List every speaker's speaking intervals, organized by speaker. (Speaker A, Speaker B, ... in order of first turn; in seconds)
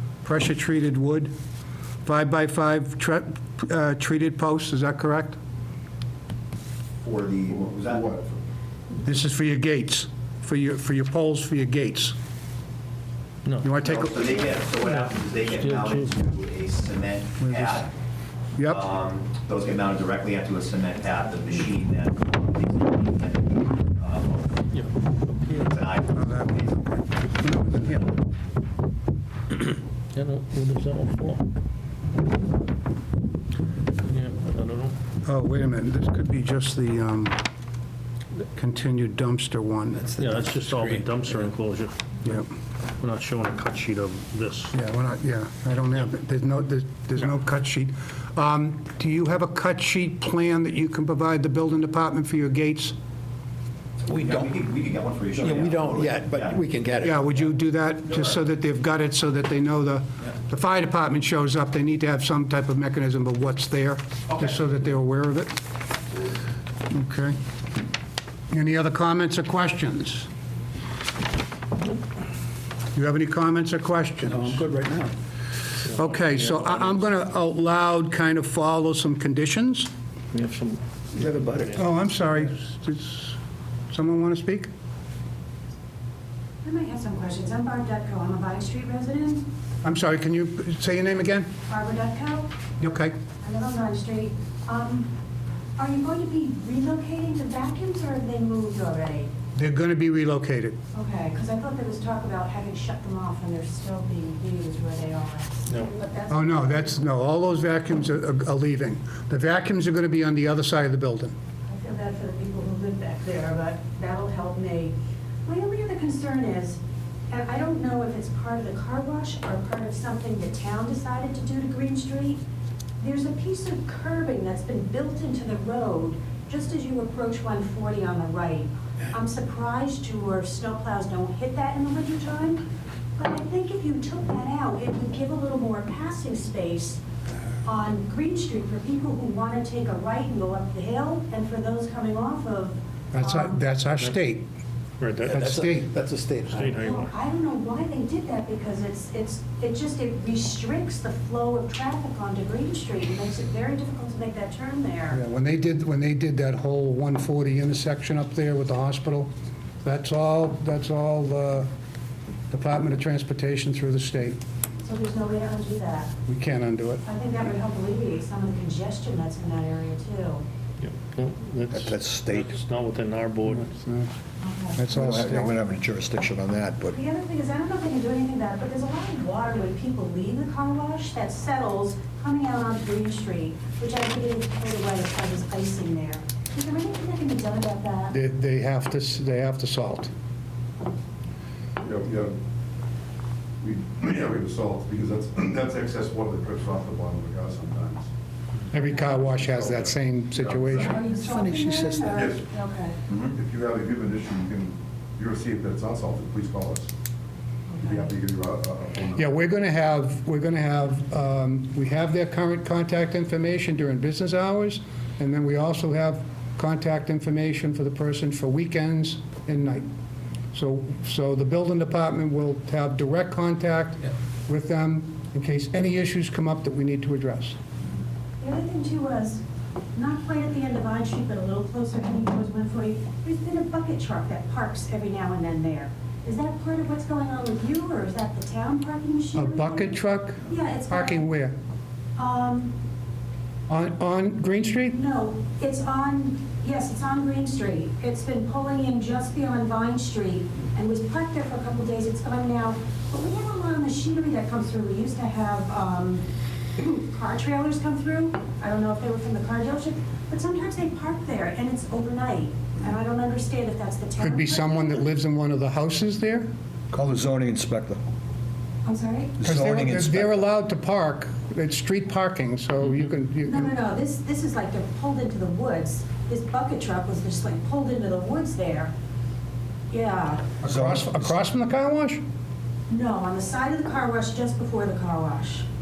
Speaker A: 0.2-1.3, 2.0-5.4, 9.0-12.2, 13.6-14.3, 17.4-17.8, 18.6-18.8, 26.1-26.6, 27.4-28.1, 35.2-37.4, 38.5-40.1, 44.7-53.0, 57.0-65.5, 66.9-67.4, 68.5-70.3, 73.0-74.7, 75.9-79.9, 81.8-83.4, 83.9-84.7, 89.8-91.5, 92.8-93.2, 99.5-100.8, 106.3-111.3, 143.1-144.5, 145.3-145.9, 155.1-159.3, 159.8-161.7, 162.5-164.4, 166.3-167.0, 173.5-174.1, 174.8-175.6, 188.1-190.1, 198.7-201.0, 209.2-219.9, 220.5-227.6, 239.3-241.6, 243.7-245.0, 264.2-266.5, 269.4-273.7, 280.6-282.2
Speaker B: 7.0-8.1, 13.8-17.9, 18.7-24.6, 25.5-26.8, 54.1-56.6
Speaker C: 7.5-8.4, 191.8-192.4, 193.6-198.1, 199.1-201.1, 202.0-202.5, 203.3-206.9, 207.8-209.3
Speaker D: 13.4-13.8, 14.8-16.2, 24.7-25.7, 30.1-31.4, 34.0-35.0, 40.1-41.9, 43.0-44.7, 75.8-77.0, 80.3-81.8, 145.0-145.8, 146.5-147.1, 170.8-173.7
Speaker E: 55.4-57.1, 74.6-75.0, 201.3-202.0
Speaker F: 86.6-89.5, 91.7-92.5, 93.4-95.1, 95.8-99.3, 100.9-106.6, 111.7-122.4, 123.0-132.6, 133.2-137.0, 137.6-143.6, 146.8-155.2, 164.8-166.2, 167.0-170.4, 174.4-174.8, 176.9-188.1, 200.9-203.0, 228.4-229.4, 229.9-241.3, 242.2-242.8, 244.9-256.2, 256.8-265.0, 268.8-269.4, 273.4-278.9, 279.9-280.5, 282.9-285.7
Speaker G: 171.7-172.5, 174.9-177.0, 266.9-268.0, 269.4-270.4, 280.6-281.4